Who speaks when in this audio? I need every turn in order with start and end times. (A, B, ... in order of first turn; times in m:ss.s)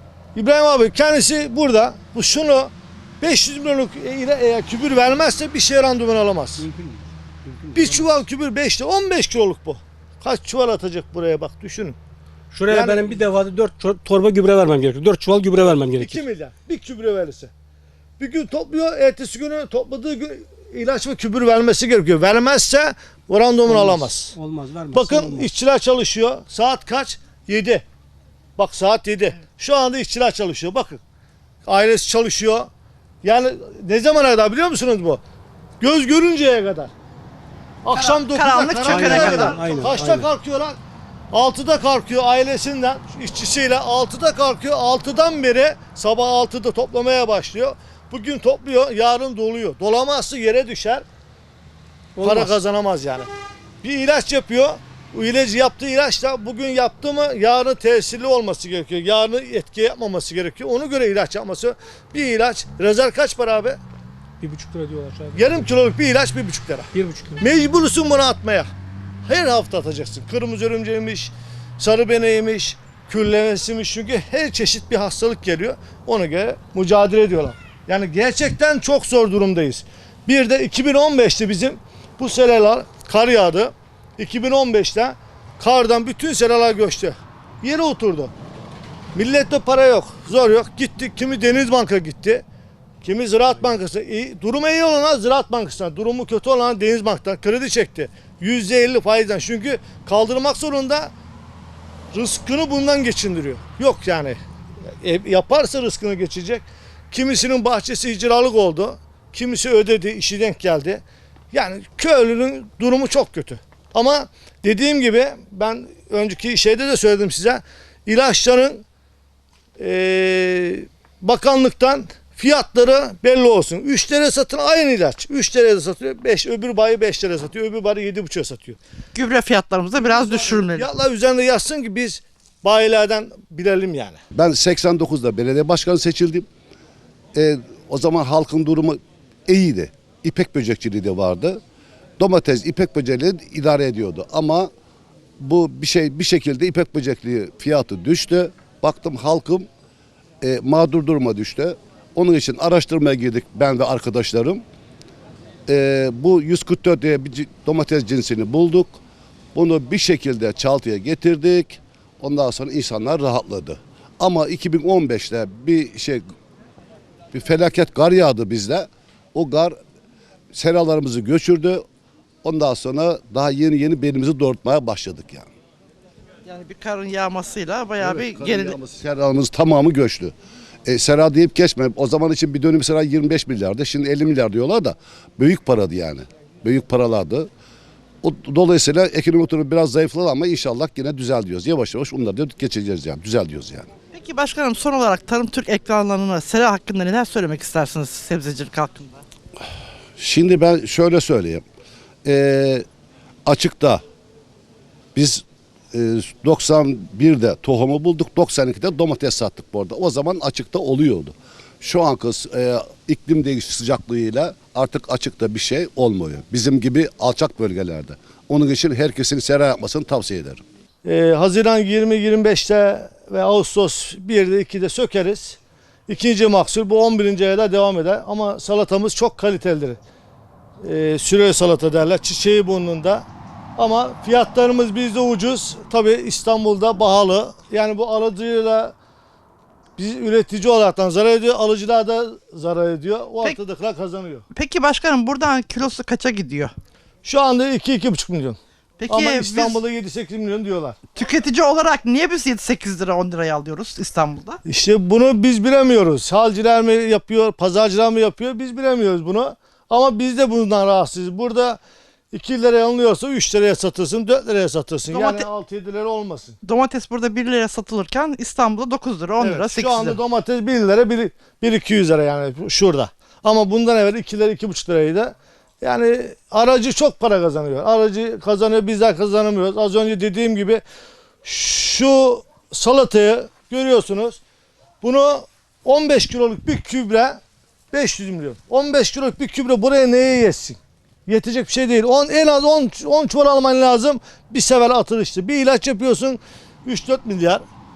0:00.4-0:06.6 A
0:06.6-0:08.1 B
0:07.7-0:12.0 A
0:12.5-0:16.2 B
0:12.7-0:13.1 A
0:16.0-0:17.5 A
0:18.2-0:24.3 A
0:23.7-0:25.5 B
0:24.9-0:27.8 A
0:28.6-0:31.0 A
0:31.7-0:32.7 A
0:33.2-0:35.2 A
0:35.8-0:36.9 A
0:37.8-0:40.8 A
0:37.9-0:39.8 C
0:38.8-0:40.3 B
0:41.3-0:51.0 A
0:52.2-0:52.6 B
0:52.2-0:53.3 A
0:53.8-1:03.8 A
1:04.4-1:05.7 B
1:05.3-1:08.7 A
1:06.9-1:07.4 B
1:09.3-1:28.3 A
1:29.1-1:32.4 A
1:33.0-1:41.1 A
1:42.1-1:44.4 A
1:45.0-1:58.8 A
1:59.8-2:08.8 A
2:09.2-2:10.9 C
2:10.0-2:14.2 A
2:14.3-2:16.5 D
2:17.4-2:21.6 D
2:22.2-2:24.7 D
2:25.4-2:29.7 D
2:30.4-2:34.6 D
2:35.7-2:39.0 D
2:39.6-2:46.2 D
2:47.3-2:49.8 D
2:50.5-2:51.8 D
2:52.4-2:55.5 D
2:56.4-2:58.8 C
2:58.0-3:00.3 D
3:00.9-3:07.5 D
3:08.2-3:13.9 D
3:14.1-3:19.2 C
3:20.2-3:21.6 D
3:22.2-3:22.9 D
3:23.5-3:24.0 D
3:25.2-3:40.6 D
3:41.0-3:50.0 A
3:50.8-3:53.3 A
3:53.8-3:59.0 A
4:00.0-4:04.4 A
4:04.5-4:06.7 C
4:07.2-4:11.0 A
4:09.0-4:09.8 C
4:11.2-4:14.6 C
4:14.7-4:21.8 A
4:22.3-4:26.6 A
4:25.1-4:25.5 C
4:26.6-4:30.2 C
4:29.4-4:40.8 A
4:41.4-4:44.4 A
4:45.0-4:47.4 A
4:47.9-4:57.6 A